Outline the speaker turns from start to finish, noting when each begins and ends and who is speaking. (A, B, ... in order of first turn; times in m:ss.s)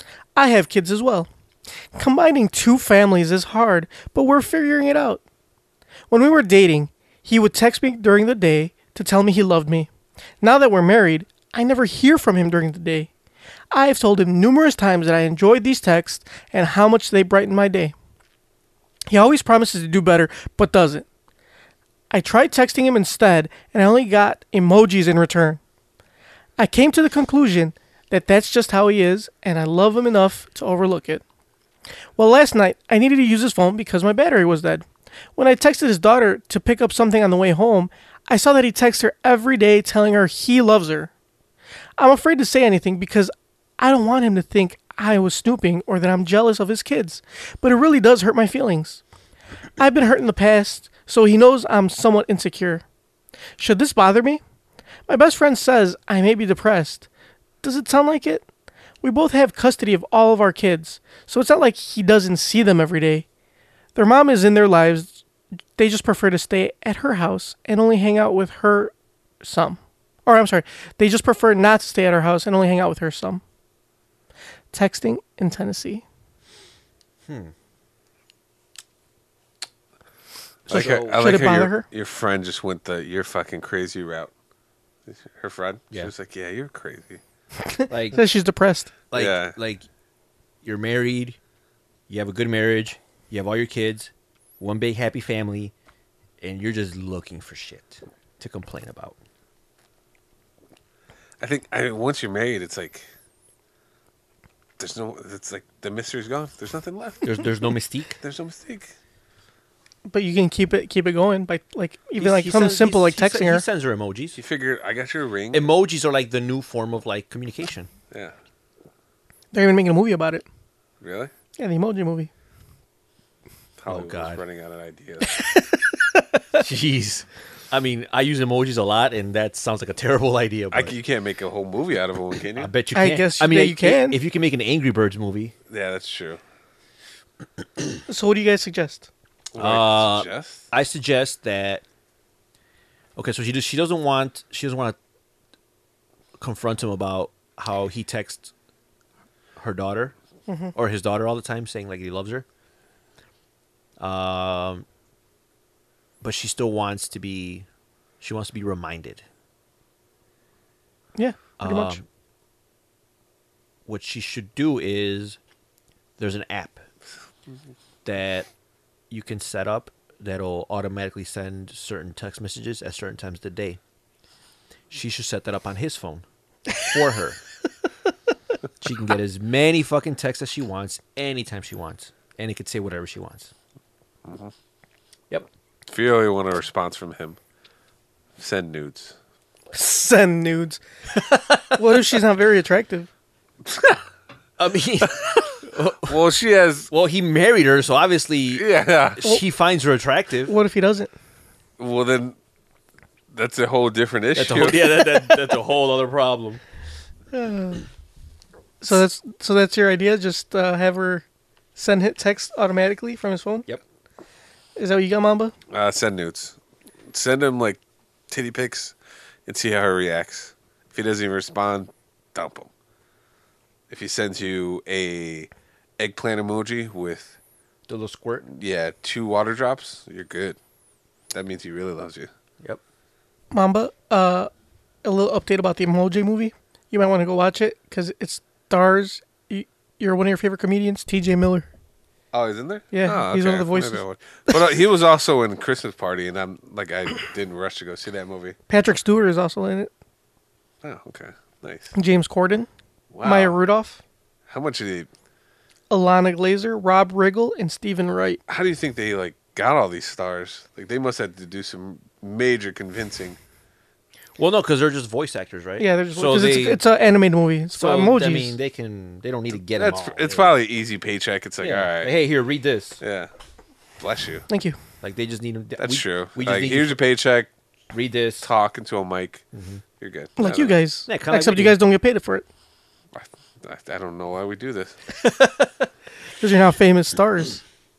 0:00.3-0:01.3 A
0:01.9-0:05.2 A
0:06.1-0:09.9 A
0:10.4-0:13.1 A
0:13.7-0:17.9 A
0:19.1-0:21.0 A
0:22.1-0:25.6 A
0:26.6-0:31.2 A
0:32.2-0:34.8 A
0:35.4-0:41.1 A
0:42.0-0:49.0 A
0:49.8-0:52.8 A
0:53.6-0:54.4 A
0:55.1-0:57.1 A
0:57.6-0:58.4 A
0:59.0-1:03.2 A
1:03.9-1:05.2 A
1:05.8-1:13.4 A
1:14.7-1:16.0 A
1:17.2-1:17.5 B
1:20.7-1:21.5 B
1:20.7-1:24.3 C
1:20.7-1:21.8 A
1:25.1-1:27.2 C
1:27.7-1:28.9 A
1:27.9-1:28.2 B
1:29.1-1:29.8 B
1:29.1-1:29.6 C
1:30.6-1:31.4 B
1:32.1-1:35.7 B
1:36.4-1:39.2 B
1:41.4-1:43.1 C
1:44.8-1:47.4 C
1:47.2-1:48.2 B
1:48.2-1:48.9 C
1:50.0-1:53.6 A
1:52.2-1:54.4 B
1:54.4-1:55.7 C
1:55.5-1:57.9 B
1:59.5-2:00.4 A
2:01.0-2:01.3 C
2:01.6-2:02.3 A
2:03.8-2:05.4 C
2:03.9-2:04.4 B
2:06.6-2:11.0 B
2:10.7-2:12.7 C
2:12.6-2:15.5 B
2:12.9-2:14.2 A
2:15.7-2:16.4 C
2:18.1-2:19.1 A
2:19.5-2:20.6 C
2:19.6-2:21.8 B
2:23.2-2:25.0 B
2:26.4-2:28.5 B
2:29.6-2:30.1 B
2:30.5-2:30.7 A
2:30.7-2:32.4 B
2:34.0-2:34.8 B
2:36.2-2:37.6 B
2:38.2-2:39.2 B
2:41.2-2:42.0 A
2:41.6-2:42.0 B
2:43.8-2:45.4 B
2:46.2-2:46.8 B
2:48.0-2:48.5 B
2:49.1-2:53.8 B
2:54.9-2:56.2 B
2:56.8-2:57.4 B
2:58.8-3:03.5 B
3:04.3-3:04.5 C
3:05.9-3:07.4 C
3:08.4-3:09.2 C
3:09.7-3:10.8 A
3:11.1-3:11.8 B
3:11.7-3:13.1 A
3:13.7-3:14.0 C
3:14.6-3:16.2 B
3:16.0-3:16.9 C
3:16.9-3:20.5 B
3:18.5-3:19.2 C
3:20.5-3:21.1 A
3:21.8-3:22.4 C
3:23.3-3:25.0 C
3:24.3-3:26.6 B
3:27.3-3:27.8 A
3:28.8-3:31.2 A
3:31.8-3:33.7 A
3:34.8-3:35.5 A
3:35.7-3:36.6 C
3:37.1-3:38.9 C
3:39.4-3:42.7 C
3:43.9-3:47.4 C
3:47.9-3:48.4 B
3:48.5-3:50.6 C
3:51.3-3:52.3 C
3:53.5-3:54.5 A
3:55.0-4:01.7 A
4:02.3-4:08.6 C
4:02.9-4:04.0 A
4:08.7-4:09.9 A
4:10.8-4:11.9 C
4:11.9-4:12.7 A
4:13.1-4:13.6 C
4:13.2-4:14.0 A
4:14.5-4:15.1 C
4:15.9-4:18.4 A
4:18.5-4:23.4 C
4:24.4-4:26.8 B
4:25.8-4:28.6 A
4:27.8-4:30.6 B
4:29.6-4:32.1 C
4:31.6-4:33.0 B
4:33.0-4:33.3 C
4:34.0-4:34.5 C
4:34.5-4:34.8 A
4:35.0-4:37.0 B
4:35.8-4:37.5 C
4:37.9-4:38.5 B
4:38.4-4:39.4 C
4:39.5-4:39.8 B
4:40.0-4:40.8 C
4:40.4-4:42.4 A
4:41.1-4:41.8 B
4:43.1-4:45.0 C
4:45.2-4:45.8 B
4:46.4-4:47.6 A